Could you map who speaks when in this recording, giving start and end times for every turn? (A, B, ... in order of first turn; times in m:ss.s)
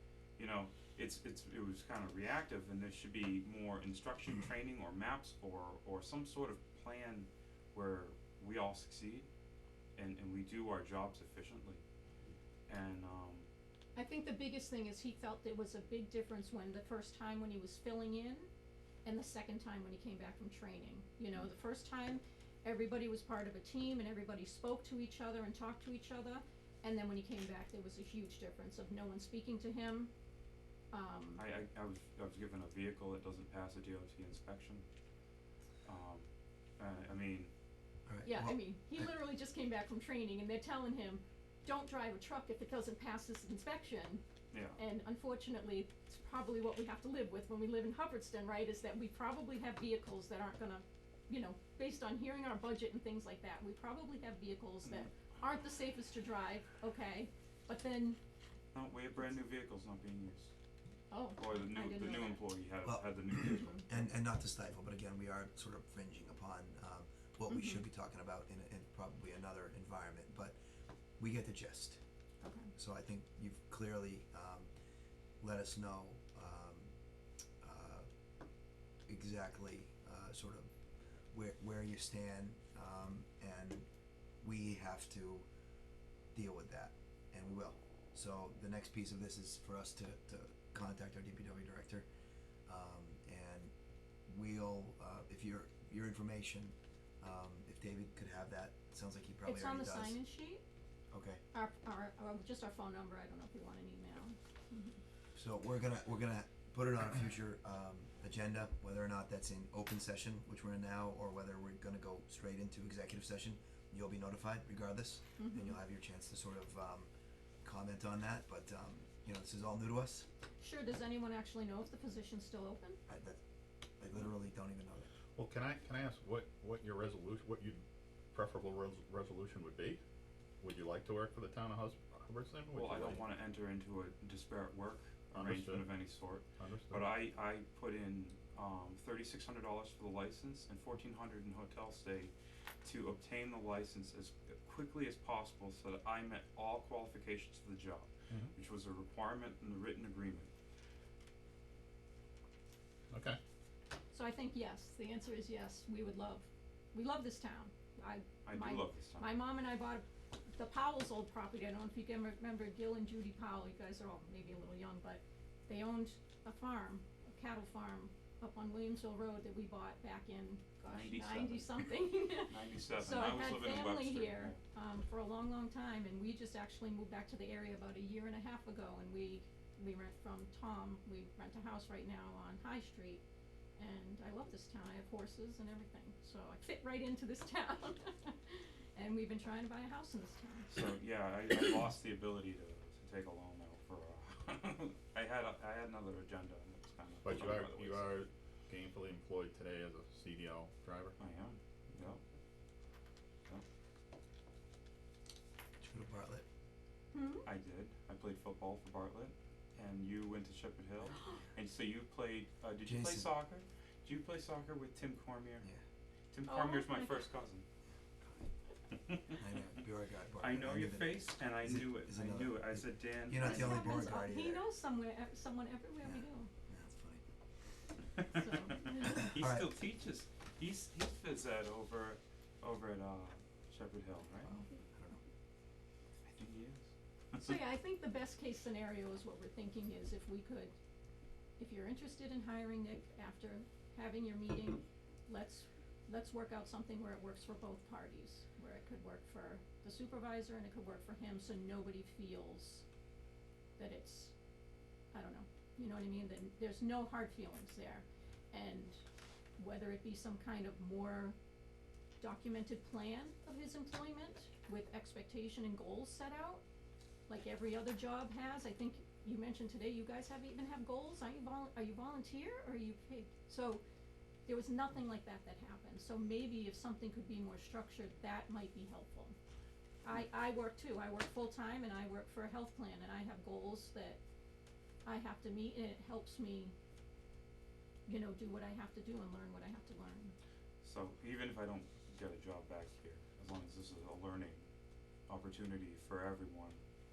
0:00.4-0:09.3 A
0:10.0-0:11.8 A
0:12.7-0:13.5 A
0:14.0-0:18.5 B
0:19.0-0:30.1 B
0:30.9-0:31.4 B
0:31.4-0:34.8 A
0:35.8-0:37.5 A
0:38.0-0:39.1 C
0:38.2-0:44.2 B
0:44.5-0:44.8 A
0:44.8-0:58.2 B
0:58.7-1:00.5 A
1:01.1-1:02.4 B
1:01.4-1:04.1 A
1:02.8-1:10.6 C
1:03.5-1:03.8 B
1:07.5-1:07.8 B
1:11.2-1:12.0 C
1:12.4-1:12.7 B
1:12.7-1:14.7 C
1:15.4-1:16.9 C
1:17.6-1:18.1 C
1:19.1-1:20.7 C
1:21.3-1:23.9 C
1:24.4-1:25.4 C
1:26.3-1:32.1 C
1:32.7-1:33.7 C
1:34.3-1:40.2 C
1:39.4-1:40.6 B
1:41.1-1:41.4 C
1:41.5-1:45.0 B
1:45.3-1:57.1 C
1:55.4-1:55.8 B
1:57.6-2:00.2 C
2:00.6-2:03.0 B
2:03.1-2:03.4 C
2:04.0-2:05.1 C
2:05.4-2:07.8 D
2:08.3-2:10.0 D
2:10.6-2:13.2 D
2:12.7-2:22.3 A
2:15.3-2:15.9 D
2:16.6-2:17.1 D
2:22.8-2:30.5 A
2:33.1-2:33.4 D
2:34.1-3:03.2 B
2:38.4-2:39.3 A
2:50.8-2:54.6 A
3:03.8-3:10.8 B
3:10.7-3:18.2 A
3:17.2-3:21.2 D
3:21.2-3:22.2 A
3:25.8-3:26.4 C
3:27.1-3:27.4 B
3:27.4-3:35.6 A
3:32.8-3:33.3 C
3:36.3-3:37.6 A
3:36.5-3:37.3 B
3:38.2-3:38.5 C
3:38.9-3:39.4 A
3:39.4-3:44.7 C
3:40.4-3:44.2 A
3:43.3-3:46.5 B
3:46.0-3:47.2 C
3:48.2-3:54.6 A
3:48.3-3:49.2 B
3:49.1-3:49.7 C
3:54.4-3:55.2 C
3:56.2-3:57.6 A
3:57.3-4:00.7 B
4:01.6-4:12.8 B
4:13.8-4:14.3 B
4:15.1-4:19.0 B
4:19.6-4:21.4 B
4:22.2-4:26.6 B
4:27.3-4:33.8 B
4:34.5-4:39.3 B
4:40.0-4:44.2 B
4:45.0-4:46.7 B
4:48.1-4:50.3 B
4:50.8-4:54.7 A
4:55.3-4:56.8 A